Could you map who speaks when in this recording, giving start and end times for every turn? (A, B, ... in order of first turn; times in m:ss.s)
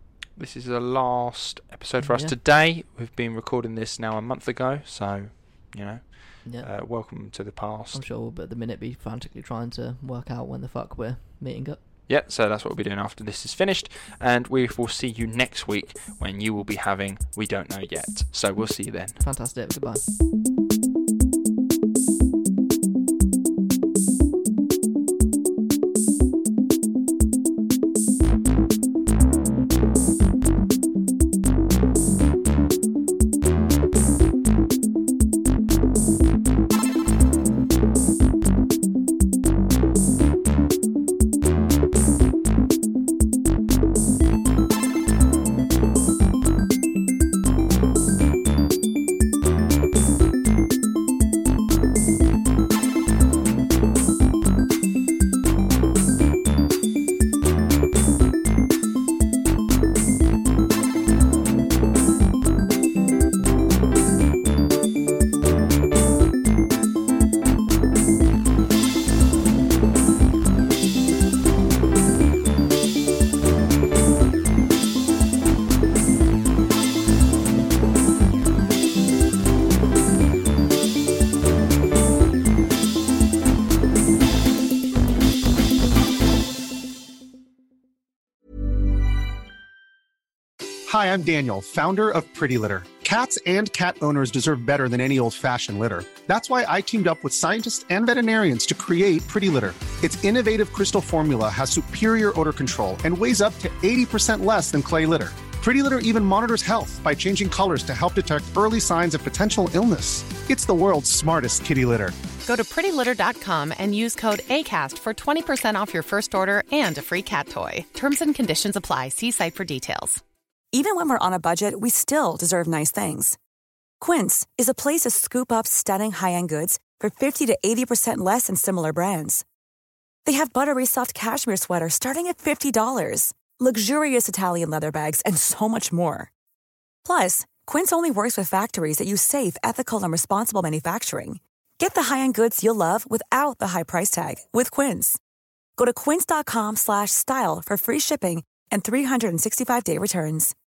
0:00.4-0:08.0 A
0:02.0-0:02.3 B
0:07.9-0:11.8 B
0:12.1-0:19.2 A
0:19.2-0:20.0 B
1:30.9-1:52.1 C
1:52.4-2:00.2 D
2:00.7-2:03.4 E
2:04.0-2:09.4 E
2:10.2-2:16.3 E
2:17.0-2:25.2 E
2:25.8-2:30.5 E